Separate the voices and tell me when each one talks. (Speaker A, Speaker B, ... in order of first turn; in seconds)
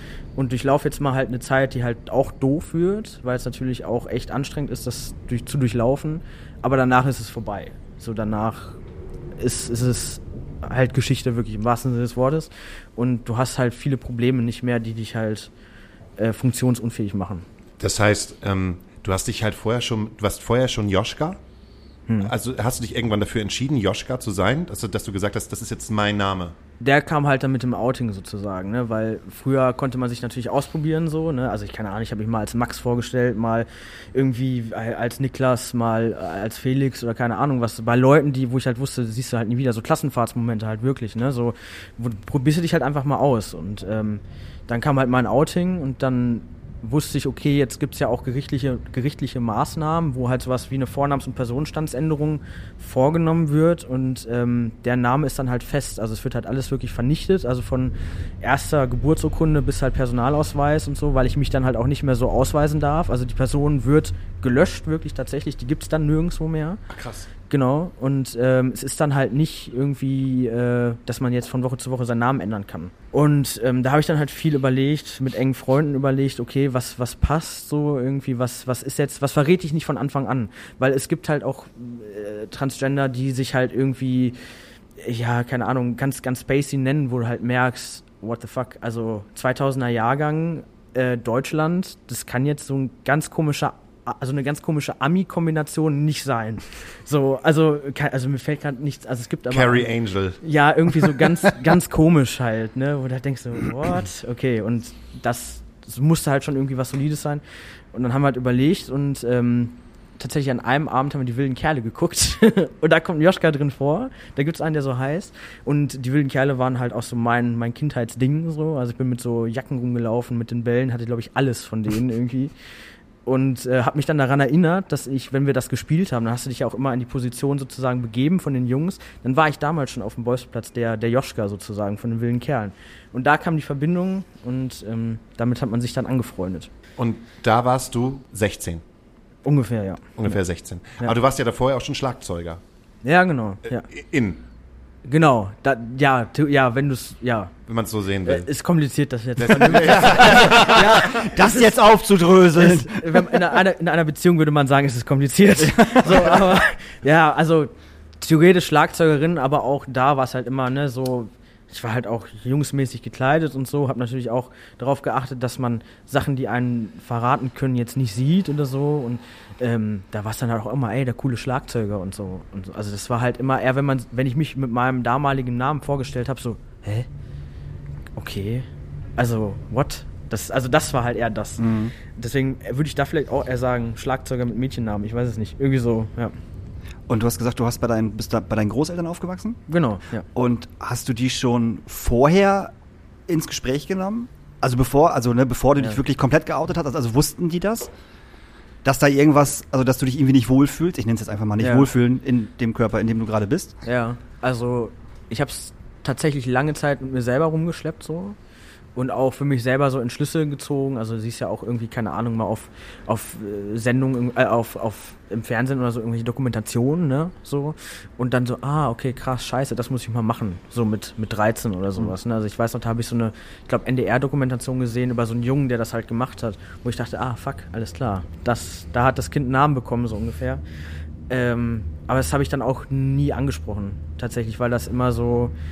Speaker A: 0.4-8.8, 9.4-15.5, 16.2-17.4, 26.8-66.8, 67.5-84.4, 85.0-107.4, 107.9-122.5, 123.3-136.7, 139.4-140.4, 143.0-143.9, 145.1-147.5, 148.3-177.1, 178.2-186.3, 189.7-190.2, 201.6-201.9, 203.8-208.4, 209.0-230.6, 231.3-235.5
Speaker B: 17.8-21.4, 22.2-26.6, 66.9-67.3, 99.5-101.1, 137.0-138.8, 140.2-142.6, 143.7-144.4, 147.7-148.5, 149.4-151.1
Speaker C: 150.3-153.4, 155.6-156.6, 181.6-181.9, 187.1-189.6, 190.3-192.7, 193.3-197.9, 198.8-203.8